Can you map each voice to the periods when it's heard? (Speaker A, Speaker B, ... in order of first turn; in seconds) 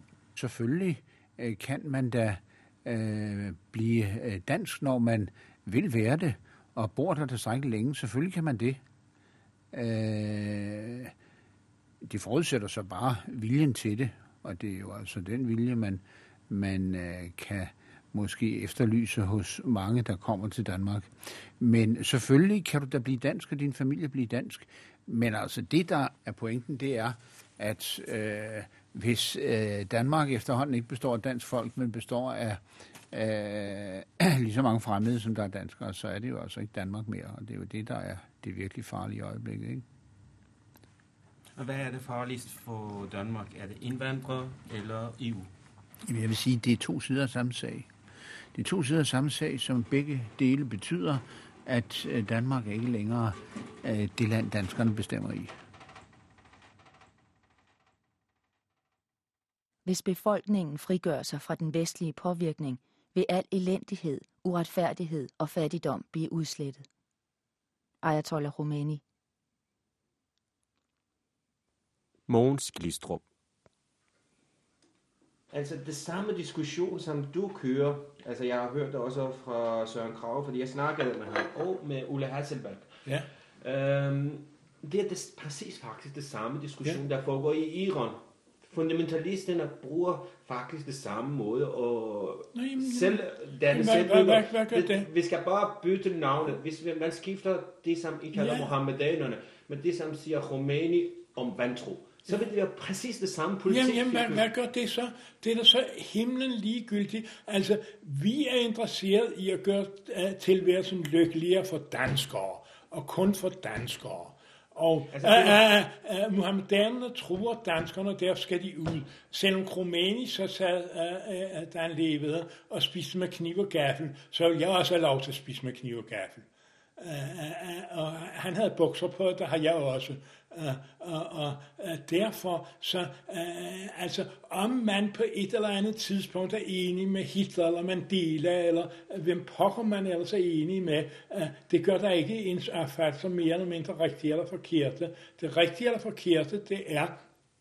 Speaker A: 0.3-8.8, 9.7-11.1, 12.0-39.8, 46.0-47.9, 48.5-55.5
Speaker B: 41.5-45.5, 72.3-73.2
Speaker C: 59.8-66.8, 68.0-69.0
Speaker D: 75.5-82.9, 83.6-104.4, 115.1-115.6
Speaker E: 92.5-95.1, 98.3-98.8, 103.7-147.2